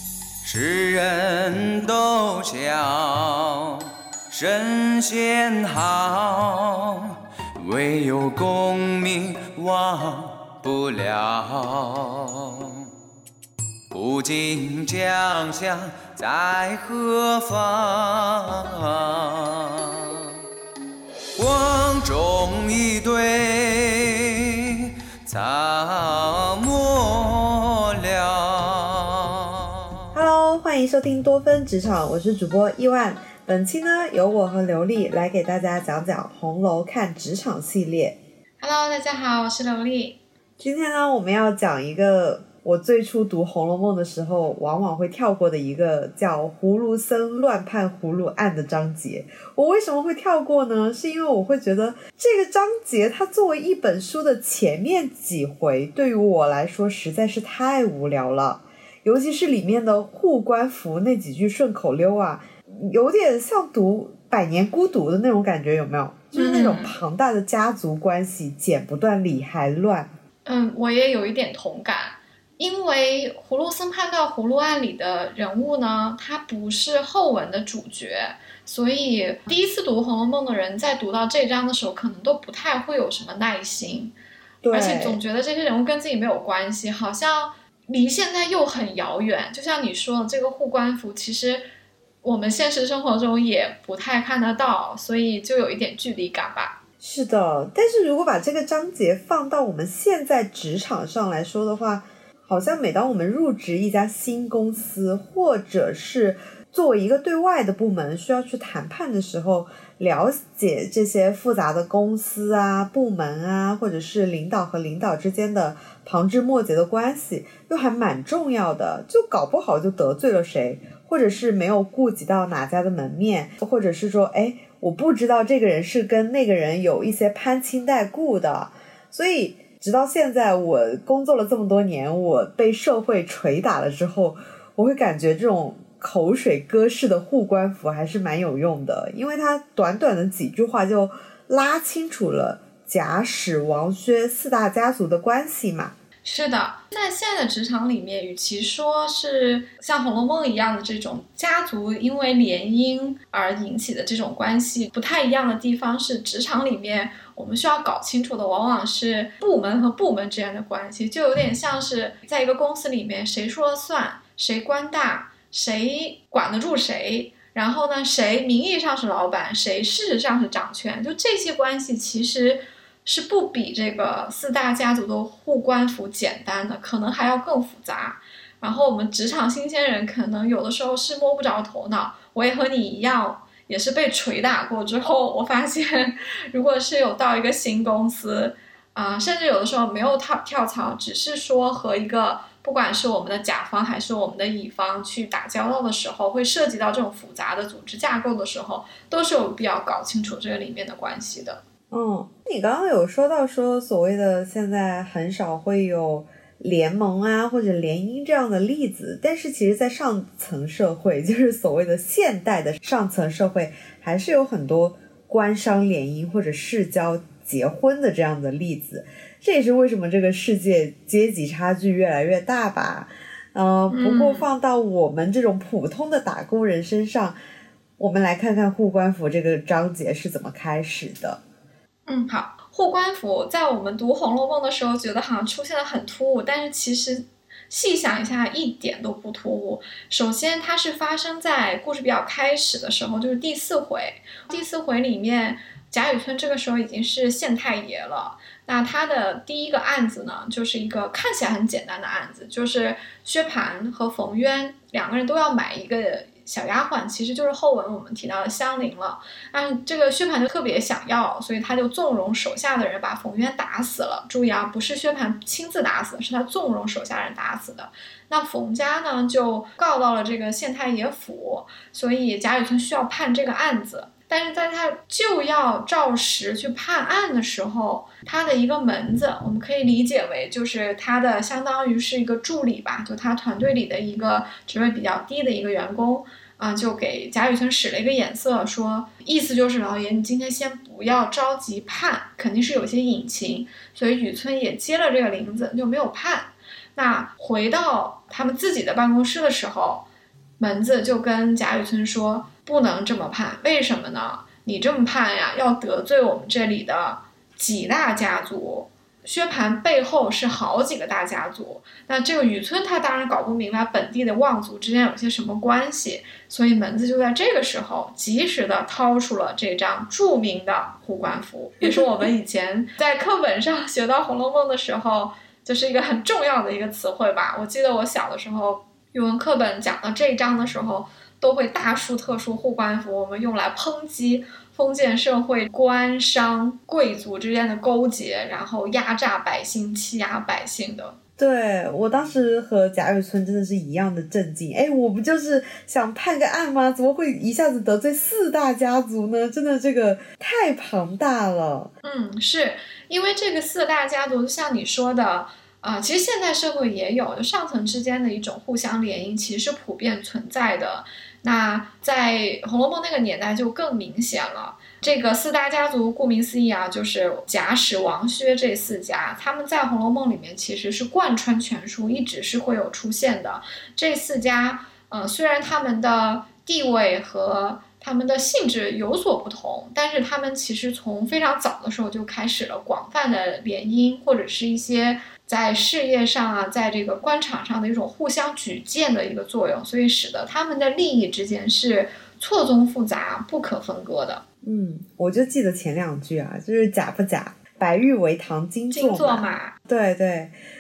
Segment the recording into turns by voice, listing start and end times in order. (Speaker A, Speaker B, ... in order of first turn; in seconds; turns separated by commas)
Speaker A: 0.4-12.8, Speaker A: 13.9-20.3, Speaker A: 21.4-29.8, Speaker B: 30.1-38.2, Speaker C: 38.6-40.2, Speaker B: 40.6-70.1, Speaker C: 66.3-67.0, Speaker C: 70.5-84.1, Speaker B: 84.6-85.2, Speaker C: 84.7-91.7, Speaker C: 92.2-96.8, Speaker B: 97.0-145.9, Speaker C: 146.2-201.6, Speaker B: 201.9-227.4, Speaker C: 223.9-224.5, Speaker B: 228.0-231.4, Speaker C: 232.1-300.1, Speaker C: 300.6-341.2, Speaker B: 321.8-322.3, Speaker B: 341.4-351.9, Speaker C: 352.0-394.4, Speaker B: 394.6-400.5, Speaker C: 398.9-399.8